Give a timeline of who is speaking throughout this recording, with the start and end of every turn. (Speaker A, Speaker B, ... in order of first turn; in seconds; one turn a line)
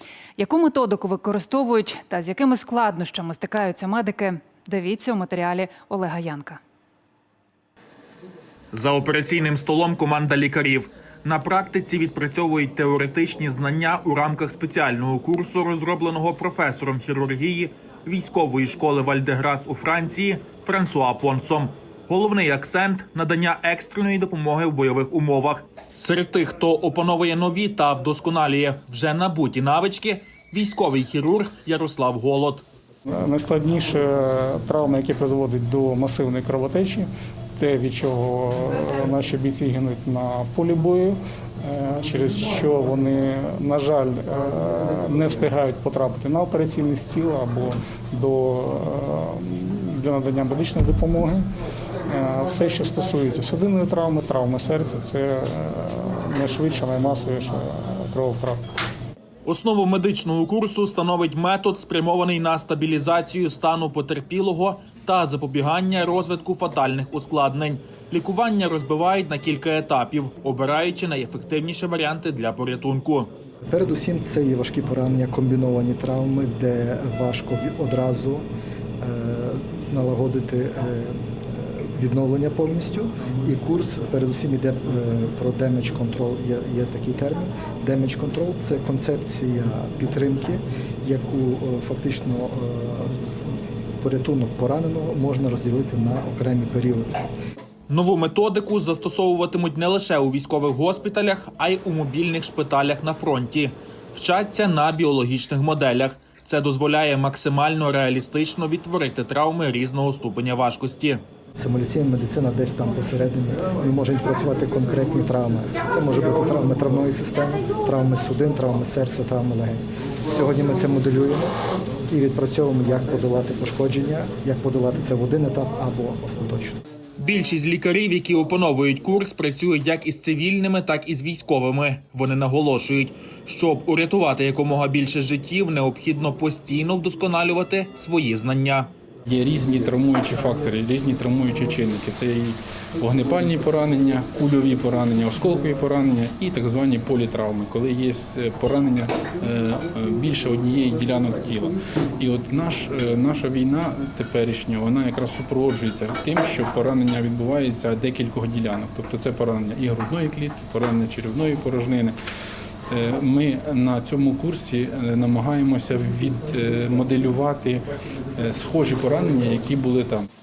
Speaker A: 0.4-6.6
Speaker B: 8.7-32.6
Speaker C: 33.1-51.4
Speaker C: 52.1-58.6
Speaker B: 59.5-73.3
Speaker D: 73.7-78.5
Speaker D: 79.0-93.2
Speaker D: 94.0-97.1
Speaker B: 97.9-111.2
Speaker D: 111.6-119.8
Speaker D: 120.3-121.5
Speaker D: 122.1-126.8
Speaker B: 127.2-138.9
Speaker E: 139.3-162.2
Speaker E: 162.9-170.3